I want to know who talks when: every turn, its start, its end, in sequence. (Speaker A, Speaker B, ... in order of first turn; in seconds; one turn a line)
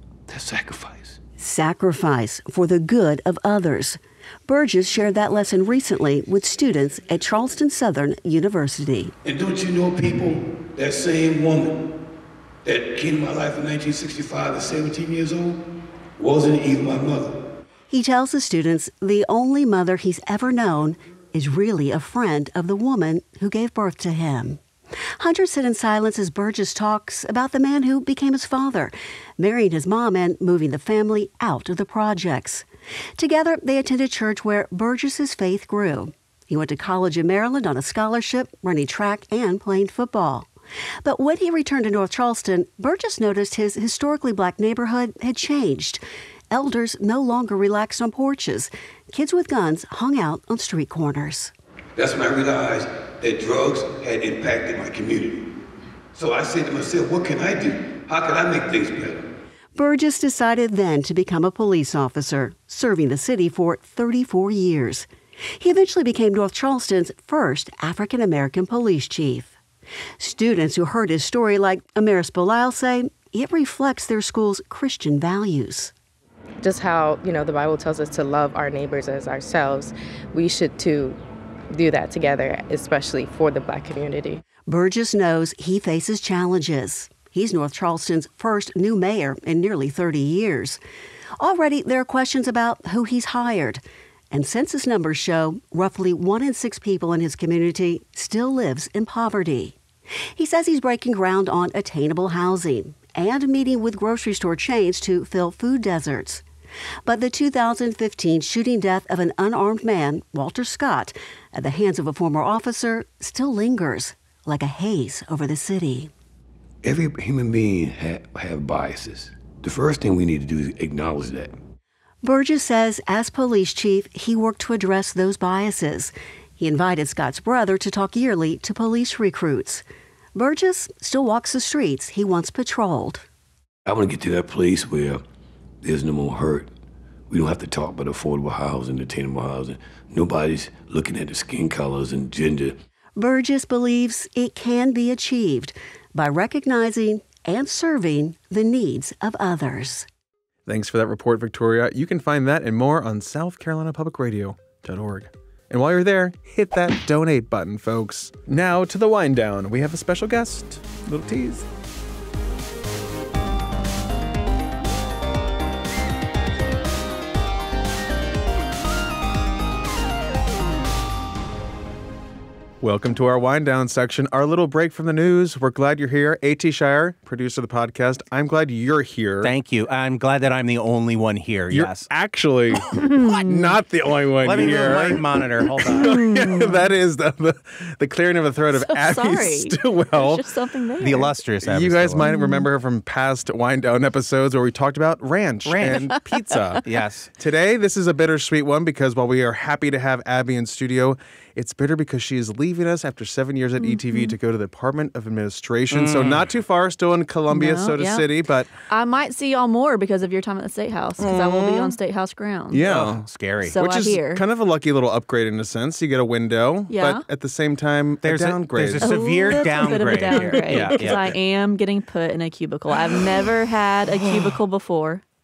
Speaker A: 0.3-1.2
Speaker B: 1.4-9.1
Speaker A: 9.2-11.8
Speaker A: 12.7-15.6
Speaker A: 16.2-17.4
Speaker B: 17.9-24.6
Speaker B: 25.2-32.7
Speaker B: 33.2-40.5
Speaker B: 41.0-51.5
Speaker A: 52.0-55.5
Speaker A: 56.1-59.3
Speaker B: 59.8-69.6
Speaker B: 70.2-75.9
Speaker C: 76.6-81.2
Speaker C: 81.7-84.4
Speaker B: 84.7-90.8
Speaker B: 91.4-99.8
Speaker B: 100.4-106.4
Speaker B: 107.1-116.1
Speaker A: 116.8-121.6
Speaker B: 122.2-129.8
Speaker B: 130.3-133.2
Speaker A: 133.9-135.2
Speaker A: 135.8-136.7
Speaker A: 137.3-142.8
Speaker B: 143.2-150.1
Speaker D: 150.7-161.7
Speaker D: 172.8-179.5
Speaker E: 179.4-182.1
Speaker D: 181.7-182.9
Speaker F: 183.0-183.8
Speaker D: 183.4-190.4
Speaker E: 184.4-186.2
Speaker F: 186.0-186.8
Speaker F: 188.8-191.3
Speaker E: 191.0-192.3
Speaker D: 191.6-196.8
Speaker F: 192.2-192.7
Speaker E: 195.7-196.2
Speaker F: 196.1-196.8
Speaker E: 196.8-197.3
Speaker D: 197.4-208.7
Speaker F: 203.8-204.3
Speaker E: 205.9-206.4
Speaker F: 207.5-208.2
Speaker F: 208.9-212.8
Speaker D: 211.2-211.9
Speaker D: 212.7-219.8
Speaker E: 212.8-213.8
Speaker F: 213.7-214.4
Speaker F: 216.9-217.2
Speaker E: 218.2-221.3
Speaker F: 219.0-225.2
Speaker D: 220.3-221.2